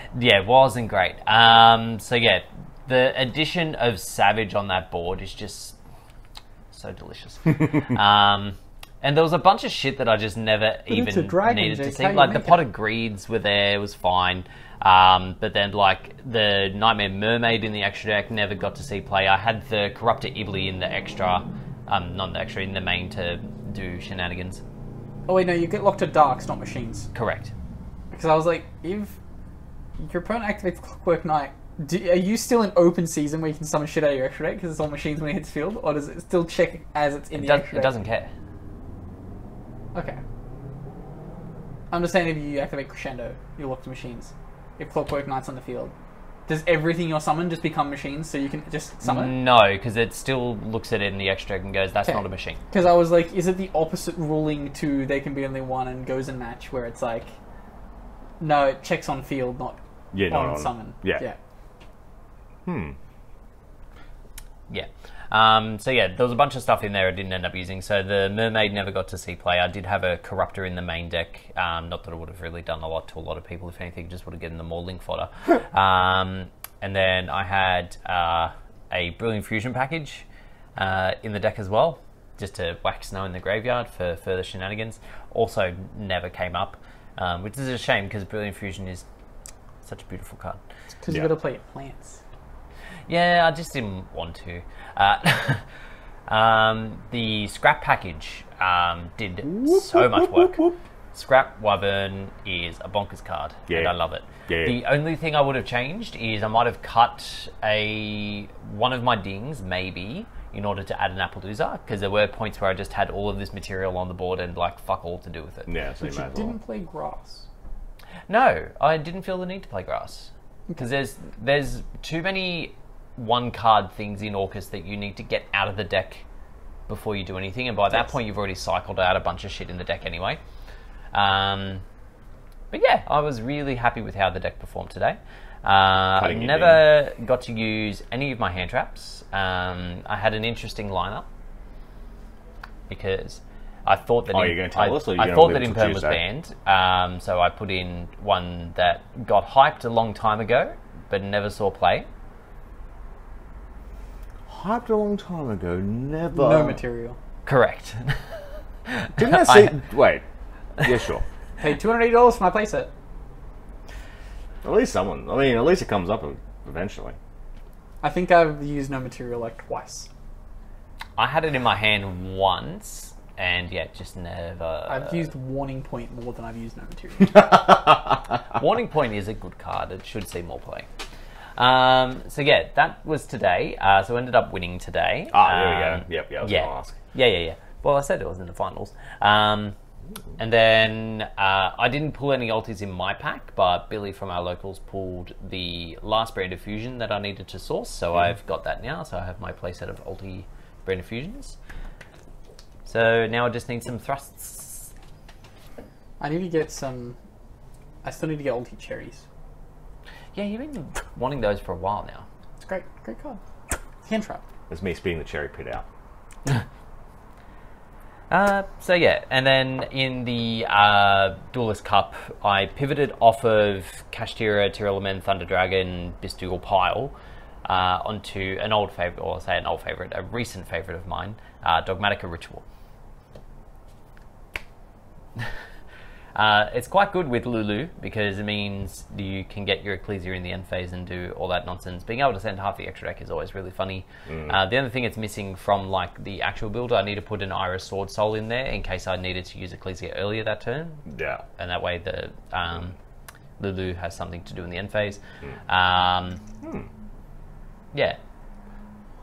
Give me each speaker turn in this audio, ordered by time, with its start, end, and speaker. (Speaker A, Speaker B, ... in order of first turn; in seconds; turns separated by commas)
Speaker A: 0.1-5.8, Speaker A: 6.7-24.6, Speaker B: 10.9-12.7, Speaker B: 25.3-27.1, Speaker A: 27.1-27.5, Speaker B: 28.1-29.2, Speaker B: 30.0-37.9, Speaker A: 37.3-38.3, Speaker B: 39.9-40.2, Speaker B: 41.9-45.9, Speaker B: 46.5-49.4, Speaker A: 49.0-52.6, Speaker B: 52.0-57.3, Speaker B: 58.4-61.4, Speaker C: 60.1-61.2, Speaker C: 62.6-63.0, Speaker A: 64.7-80.2, Speaker A: 80.8-89.1, Speaker A: 89.8-90.6, Speaker B: 91.0-92.2, Speaker A: 93.1-95.6, Speaker A: 96.3-100.5, Speaker C: 99.5-100.8, Speaker A: 101.1-115.7, Speaker C: 103.7-103.9, Speaker C: 104.5-104.8, Speaker C: 115.7-116.6, Speaker B: 116.0-117.5, Speaker A: 118.3-126.2, Speaker A: 126.9-130.4, Speaker A: 131.1-131.8, Speaker A: 132.7-141.2, Speaker C: 136.2-136.8, Speaker A: 142.9-152.1, Speaker C: 144.3-146.2, Speaker C: 154.5-156.8, Speaker B: 156.3-157.2, Speaker A: 157.4-159.8, Speaker C: 159.2-160.2, Speaker C: 160.8-161.2, Speaker B: 161.6-162.9, Speaker C: 164.6-167.2, Speaker B: 168.0-170.1, Speaker A: 171.2-175.3, Speaker B: 174.9-177.5, Speaker A: 178.5-180.9, Speaker A: 181.6-189.8, Speaker C: 185.3-187.0, Speaker A: 190.4-201.6, Speaker A: 202.9-204.9, Speaker B: 206.2-207.2, Speaker B: 208.0-209.2, Speaker A: 210.3-212.2, Speaker B: 212.6-213.4, Speaker B: 214.0-214.4, Speaker C: 214.7-215.8, Speaker A: 218.3-227.1, Speaker A: 227.6-232.6, Speaker A: 236.3-251.1, Speaker C: 244.3-244.6, Speaker C: 251.1-251.4, Speaker A: 251.6-252.9, Speaker A: 253.6-256.4, Speaker C: 256.6-256.9, Speaker A: 257.9-258.2